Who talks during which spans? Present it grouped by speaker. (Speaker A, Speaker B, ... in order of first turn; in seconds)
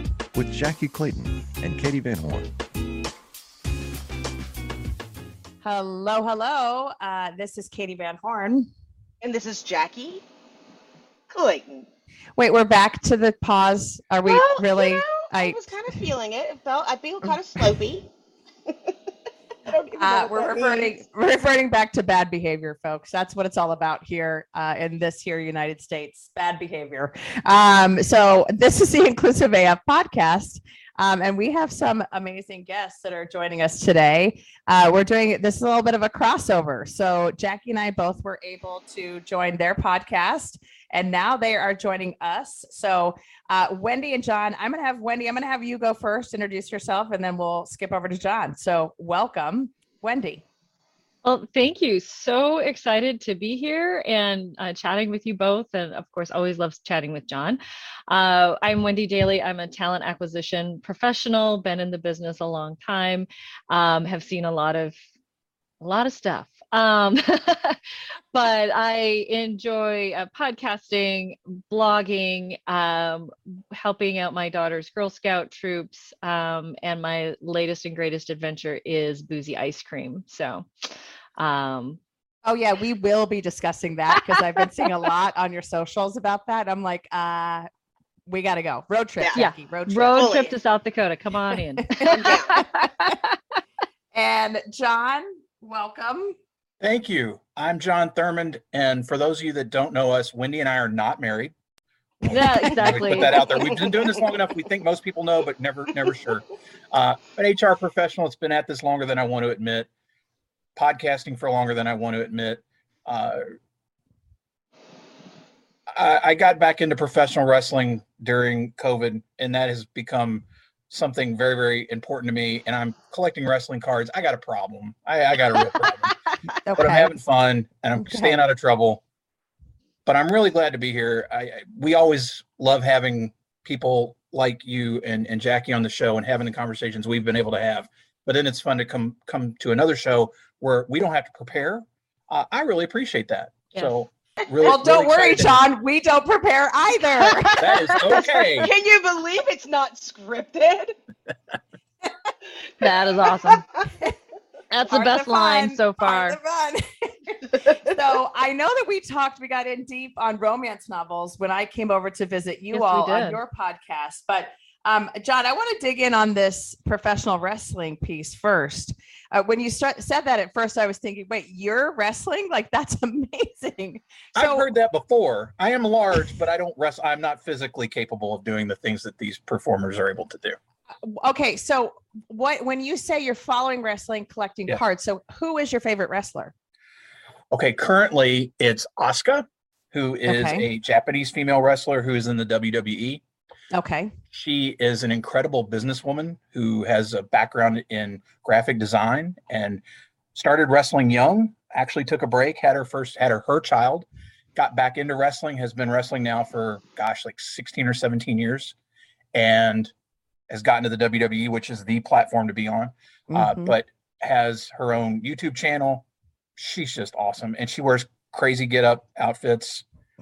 Speaker A: 0.3-2.5
Speaker B: 5.6-8.7, 12.4-16.0, 20.0-50.5, 82.4-87.7, 88.3-90.5, 91.8-93.2, 94.1-96.4, 102.3-103.5, 126.6-127.2, 128.0-128.4, 144.6-148.2, 154.8-174.7, 181.0-186.5, 190.3-190.7, 193.7-194.1, 213.3-213.8
Speaker C: 9.2-10.2, 11.3-11.9, 14.3-18.1, 18.7-18.9, 19.7-20.9, 90.1-90.5, 92.0-92.6, 103.6-103.9, 148.2-150.9, 153.5-153.9, 157.6-157.9
Speaker D: 51.2-65.0, 65.8-67.8, 68.3-82.0, 89.4-93.3, 102.2-103.6, 152.8-153.7, 154.7-156.4, 162.7-163.4
Speaker E: 96.8-101.5, 102.2-109.9, 110.8-113.4, 115.9-126.1, 126.8-129.0, 130.1-145.6, 147.6-148.7, 174.3-180.6, 187.5-193.2, 194.3-199.8, 200.3-208.8, 209.3-209.9, 210.5-216.1, 216.6-219.8